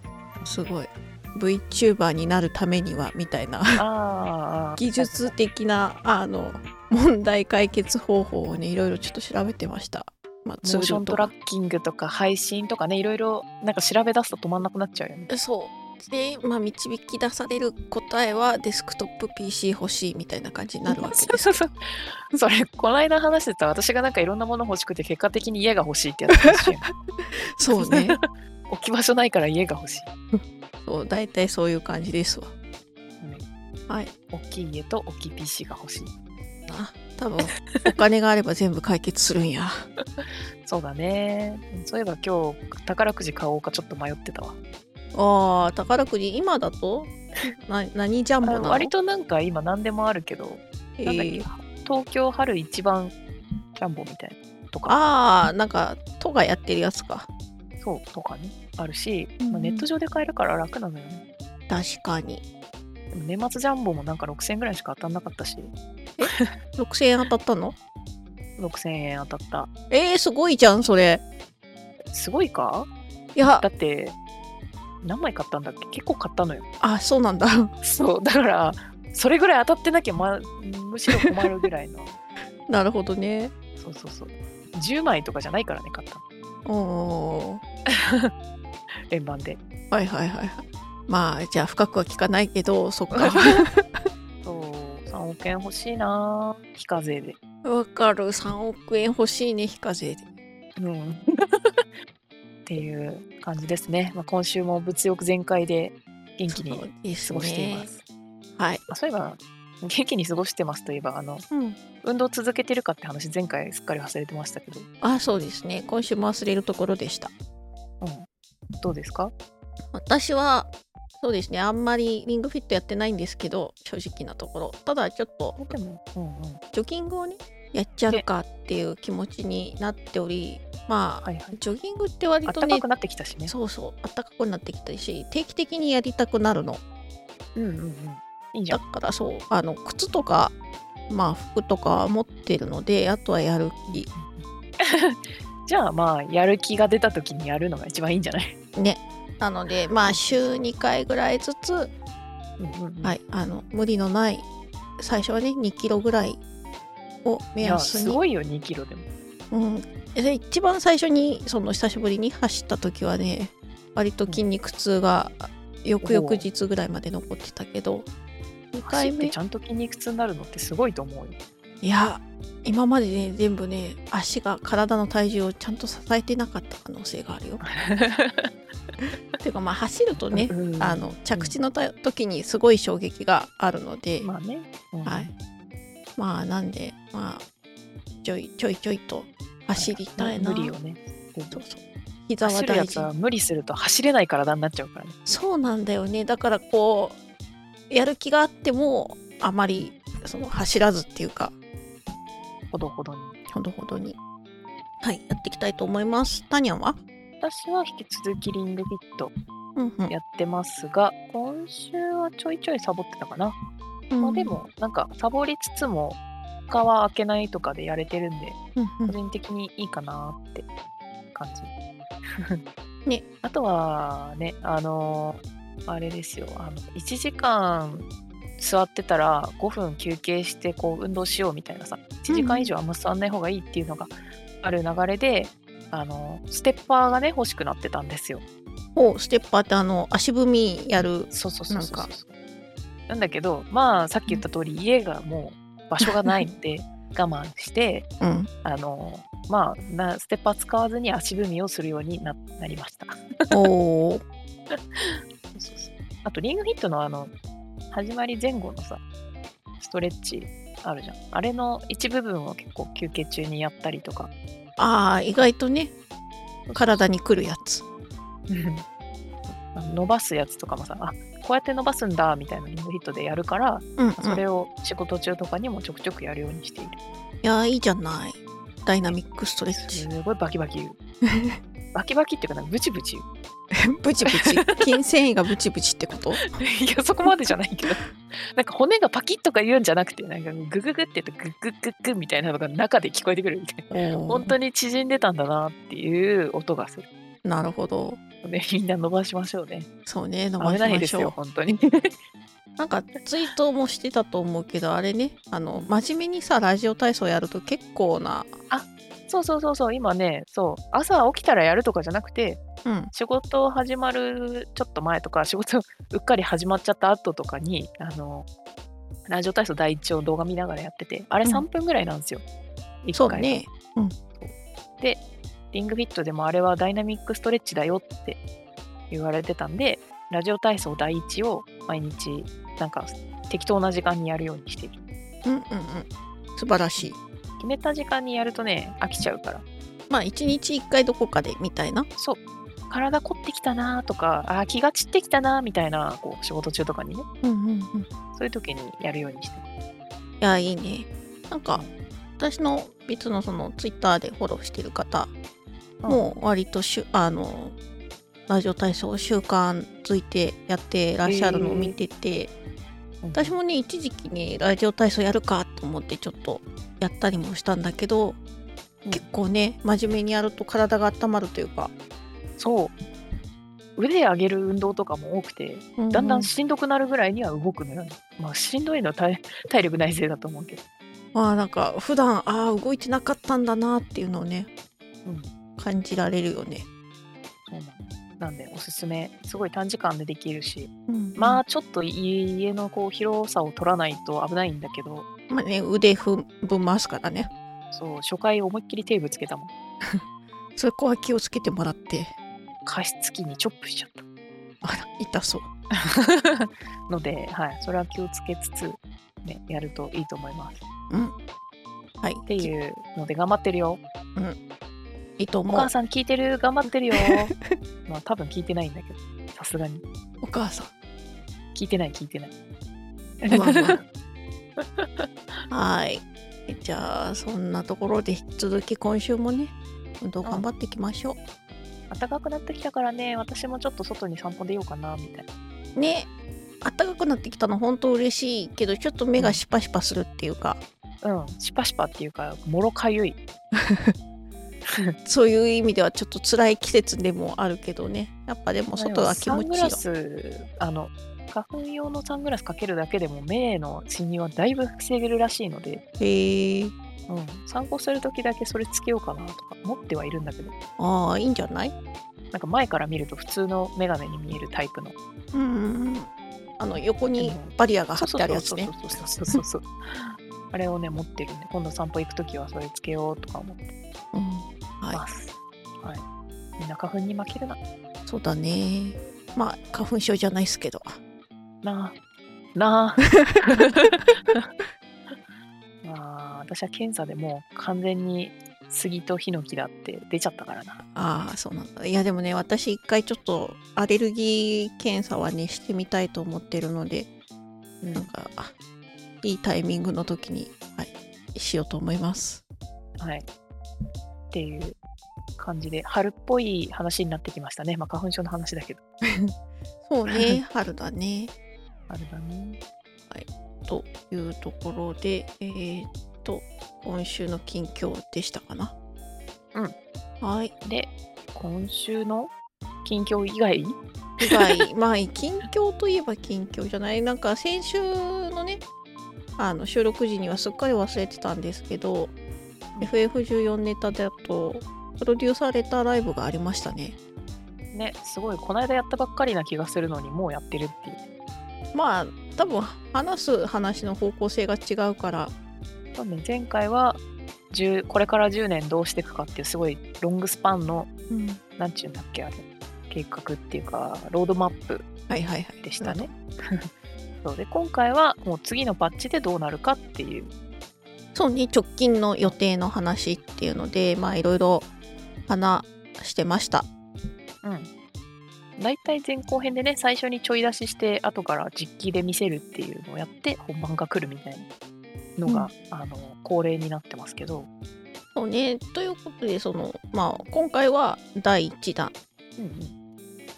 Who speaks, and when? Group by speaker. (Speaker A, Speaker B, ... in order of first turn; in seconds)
Speaker A: 0.4-3.8, 4.8-11.3, 15.3-21.6, 26.4-28.2, 30.3-32.5, 36.7-39.9, 45.1-48.9, 51.0-51.5, 54.9-57.3, 59.4-59.9, 61.7-62.4, 66.2-67.8, 69.9-71.2, 73.4-73.7, 76.8-77.7, 82.7-83.5, 86.7-87.6, 89.9-94.0, 97.6-100.3, 106.5-107.9, 108.6-108.8, 111.5-111.8, 115.0-117.3, 119.9-125.7, 126.7-132.8, 133.5-136.8, 138.7-140.6, 141.1-144.1, 148.8-151.9, 153.0-154.5, 155.0-156.4, 157.2-158.2, 159.5-168.1, 168.7-169.4, 171.8-177.6, 179.4-184.3, 185.1-185.3, 186.2-187.4, 188.2-190.7, 191.5-193.1, 195.3-197.2, 197.9-201.5, 203.5-204.2, 205.0-207.0, 209.8-210.1, 214.1-214.6, 218.8-219.2, 232.3-232.7, 238.9-242.1, 248.2-248.5, 253.5-254.2, 264.8-265.9, 266.8-267.8, 274.0-274.4, 277.4-280.1, 281.3-281.6, 283.7-286.6, 293.9-294.6, 297.4-298.2, 300.1-301.4, 302.8-308.5, 312.9-313.1, 323.1-324.1, 335.4-337.2, 340.1-342.1, 347.4-348.1, 350.4-351.8, 352.4-355.3, 356.1-357.8, 358.5-362.5, 363.4-368.4, 369.1-371.9, 376.0-376.5, 381.3-384.7, 385.8-386.9, 391.1-391.6, 395.5-397.5, 400.8-402.3, 404.8-405.7, 411.1-411.4, 412.2-412.7, 415.4-415.9, 417.2-417.7, 420.4-420.9, 423.5-424.0, 425.7-431.4, 436.0-436.3, 436.8-440.8, 443.8-444.1, 445.2-450.0, 456.2-456.9, 461.0-461.9, 465.5-468.9, 474.3-475.2, 478.3-481.2, 491.1-497.3, 498.1-498.7, 499.4-502.6, 509.2-509.5, 510.1-511.5, 513.3-518.9, 520.4-520.7, 524.4-528.8, 529.6-532.3, 533.0-537.2, 541.9-545.5, 551.3-551.6, 555.3-556.3, 561.4-564.9, 565.5-566.9, 578.4-582.1
Speaker B: 3.8-5.3, 10.6-15.3, 20.9-26.9, 27.7-30.1, 34.3-36.1, 40.2-44.6, 48.4-53.1, 53.8-55.0, 57.8-61.2, 63.1-66.5, 68.6-69.7, 72.1-72.9, 73.6-74.2, 75.0-76.7, 77.8-82.2, 83.8-86.2, 87.9-88.3, 89.1-89.6, 93.1-93.6, 94.4-97.4, 100.8-101.8, 102.7-108.0, 108.9-111.5, 112.0-114.9, 118.0-118.3, 118.8-119.3, 125.7-126.6, 131.2-131.6, 132.5-133.5, 137.6-138.8, 143.9-148.6, 150.0-150.5, 152.6-153.2, 157.6-159.1, 166.0-166.5, 168.8-171.4, 177.6-178.5, 180.2-181.6, 184.2-185.3, 189.8-191.7, 192.4-195.3, 202.7-203.4, 207.4-209.3, 210.1-213.6, 214.2-220.7, 221.3-221.7, 222.4-222.6, 223.4-238.4, 241.3-242.3, 243.1-248.1, 248.6-253.7, 254.7-257.3, 257.9-259.0, 259.8-264.3, 266.7-267.1, 268.5-268.9, 269.5-277.0, 279.7-281.0, 281.9-283.3, 284.2-284.8, 286.4-297.1, 298.4-299.9, 300.6-302.2, 308.7-318.5, 319.3-322.4, 323.0-323.6, 324.4-325.2, 325.7-328.4, 329.1-335.0, 337.0-339.6, 342.9-347.3, 348.4-349.7, 361.2-362.0, 363.2-363.6, 372.6-373.0, 374.0-380.8, 387.7-395.3, 397.9-399.7, 402.9-404.2, 406.0-410.9, 412.5-414.0, 415.7-417.5, 418.1-420.0, 421.8-422.5, 423.4-424.0, 424.8-425.3, 432.1-435.5, 441.2-443.4, 449.0-456.0, 457.3-460.7, 462.5-465.2, 467.4-473.9, 475.1-476.2, 476.8-477.8, 481.8-482.2, 482.8-484.7, 486.0-491.0, 498.0-498.3, 503.2-503.5, 504.5-505.0, 505.6-509.0, 510.3-510.6, 512.1-512.8, 520.8-522.5, 523.0-524.9, 537.9-541.2, 546.2-551.1, 551.8-555.1, 555.8-556.9, 557.4-560.5, 567.6-567.9, 568.8-574.7, 575.4-577.7, 582.6-583.0